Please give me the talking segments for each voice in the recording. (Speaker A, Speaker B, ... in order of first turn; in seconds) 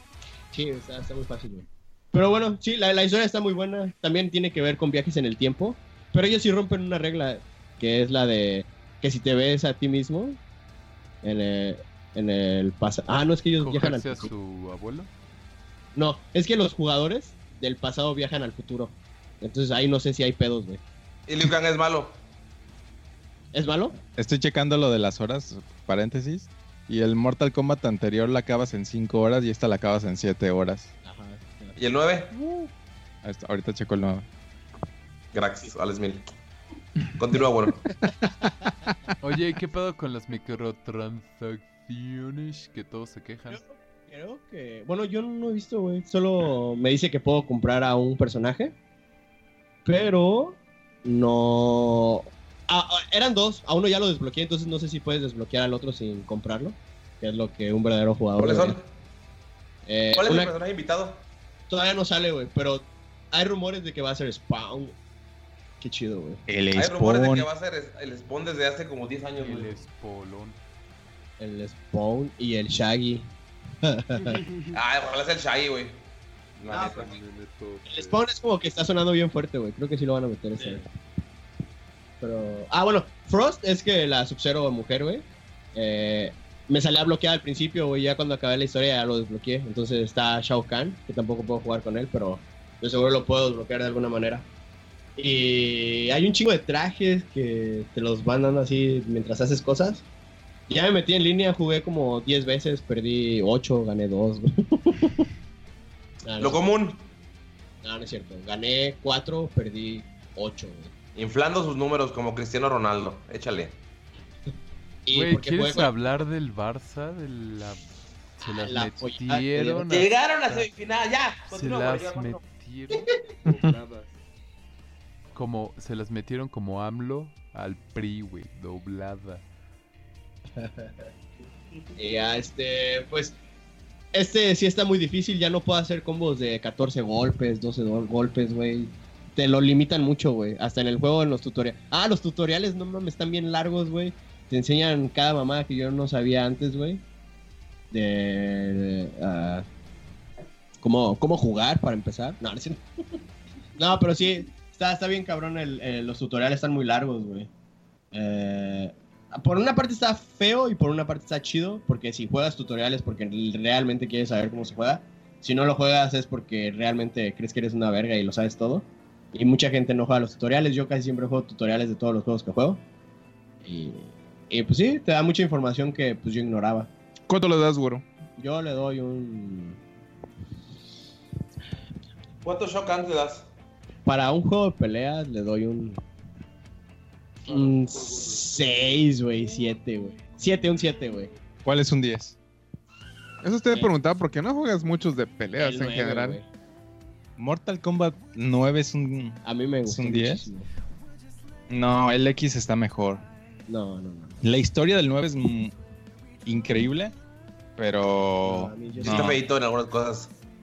Speaker A: 0.5-10.4, 11.2-14.3, 15.9-20.8, 23.5-23.9, 31.0-31.8, 43.5-48.7, 49.9-58.8, 59.9-60.5, 61.7-65.0, 65.8-66.4, 71.4-73.3, 73.8-74.4, 76.7-77.1, 77.9-80.8, 82.2-94.5, 95.2-100.0, 100.7-105.3, 106.2-106.6, 107.8-110.9, 115.0-115.9, 118.4-119.8, 130.6-131.1, 132.0-133.4, 134.1-147.0, 147.9-149.7, 150.8-152.8, 153.8-157.5, 158.1-172.8, 173.6-176.9, 178.4-179.8, 184.1-186.0, 187.4-191.3, 195.6-196.5, 199.4-200.7, 203.7-204.4, 208.4-209.4
Speaker B: 13.6-15.1, 32.4-32.7, 39.2-43.6, 69.4-70.6, 76.6-78.2, 115.1-117.8, 118.4-120.7, 121.5-124.1, 125.3-129.4
Speaker C: 21.3-22.2, 31.8-32.3, 35.3-36.3, 37.2-37.9, 58.4-58.9, 60.1-61.3, 66.7-69.7, 74.7-76.0, 76.6-77.1, 106.4-107.0, 111.2-113.8, 119.8-122.4, 182.4-183.5, 209.0-210.3
Speaker D: 24.1-30.9, 33.2-34.3, 66.5-67.5, 191.7-192.4, 197.4-200.5, 201.7-203.3, 204.4-205.8, 206.4-207.2, 207.8-209.4
Speaker E: 123.5-123.8, 177.3-178.1, 193.4-196.4